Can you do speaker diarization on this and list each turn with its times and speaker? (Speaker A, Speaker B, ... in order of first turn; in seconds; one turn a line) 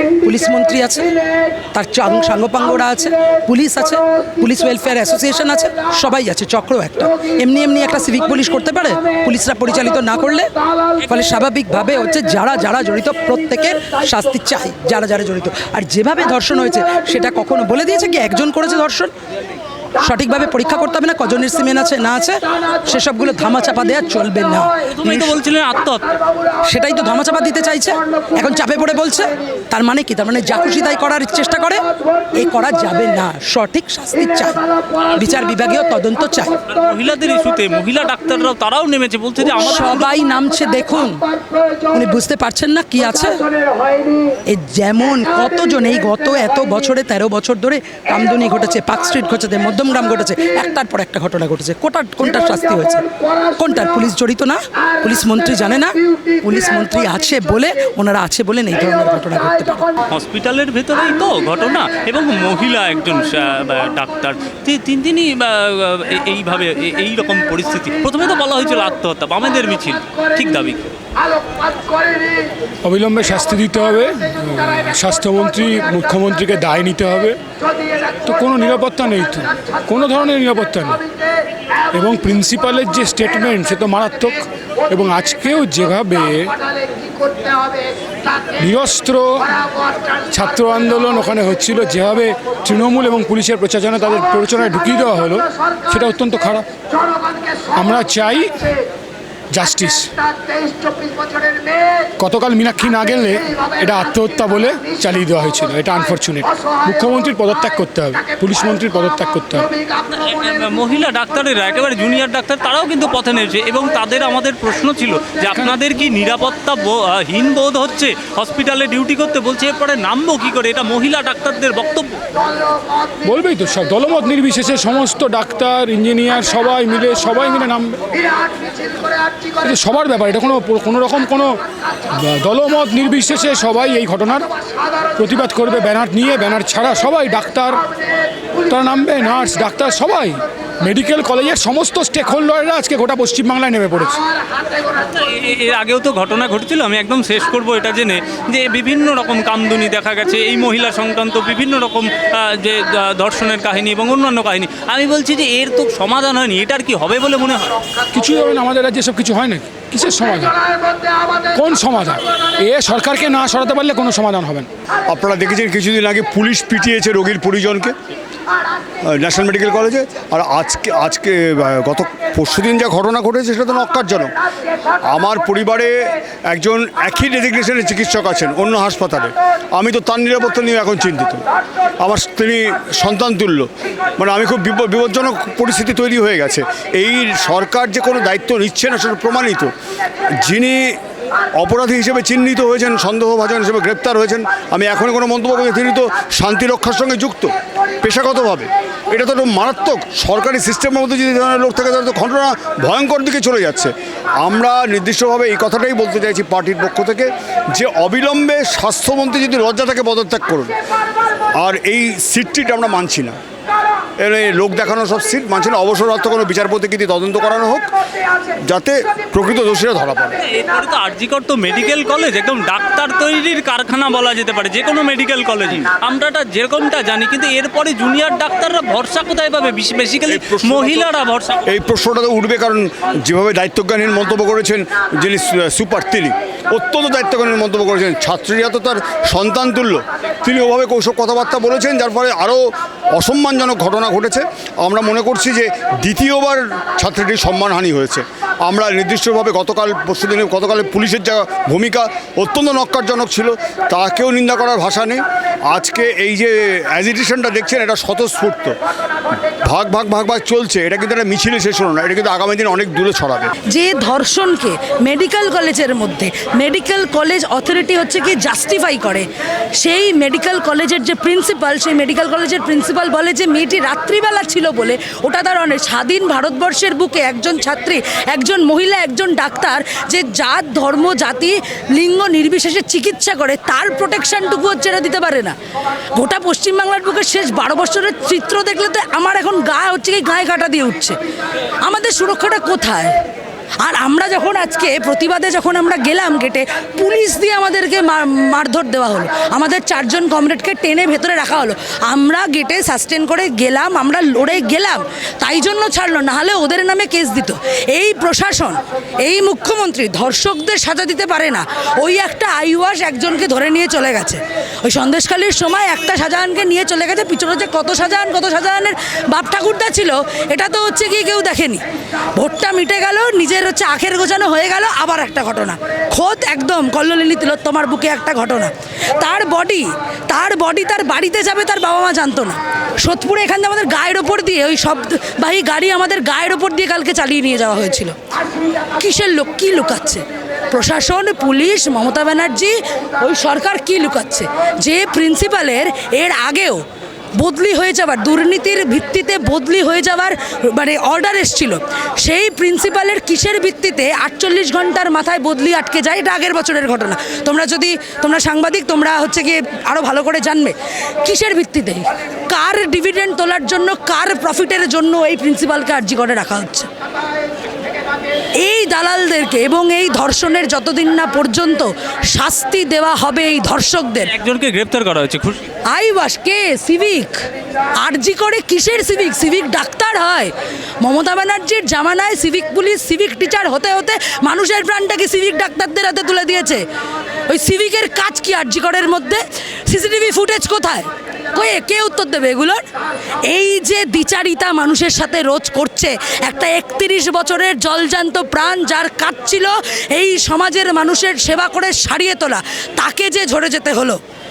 Speaker A: 0.2-19.1
Speaker A: 20.0-25.4
Speaker B: 24.9-26.2
Speaker A: 26.6-36.6
Speaker B: 36.7-40.2
Speaker A: 39.6-43.4
Speaker A: 44.5-59.9
Speaker B: 60.1-70.9
Speaker C: 72.8-77.4
Speaker C: 78.1-81.1
Speaker C: 81.9-86.5
Speaker C: 88.4-89.5
Speaker C: 90.1-96.7
Speaker C: 97.8-98.7
Speaker C: 99.5-100.1
Speaker C: 102.2-109.8
Speaker B: 110.0-122.2
Speaker C: 115.5-115.8
Speaker C: 123.2-128.0
Speaker C: 129.5-131.6
Speaker C: 132.1-134.5
Speaker C: 135.2-137.8
Speaker C: 138.6-144.2
Speaker B: 144.9-157.8
Speaker C: 158.1-160.6
Speaker C: 161.5-164.7
Speaker D: 165.1-167.9
Speaker D: 169.0-174.3
Speaker D: 175.0-181.4
Speaker D: 182.0-189.7
Speaker D: 190.4-191.0
Speaker D: 191.6-210.7
Speaker D: 211.6-213.4
Speaker D: 214.2-217.9
Speaker D: 218.6-220.4
Speaker B: 220.4-231.6
Speaker D: 230.3-231.1
Speaker D: 231.7-258.8
Speaker D: 259.6-263.5
Speaker E: 263.7-269.3
Speaker E: 269.8-285.6
Speaker E: 286.1-291.2
Speaker E: 291.8-293.2
Speaker E: 293.8-321.8
Speaker E: 322.4-338.1
Speaker E: 338.9-346.8
Speaker E: 347.4-366.9
Speaker E: 368.6-374.3
Speaker B: 374.3-375.6
Speaker E: 375.9-377.4
Speaker E: 378.0-386.8
Speaker E: 387.5-392.8
Speaker E: 393.5-404.2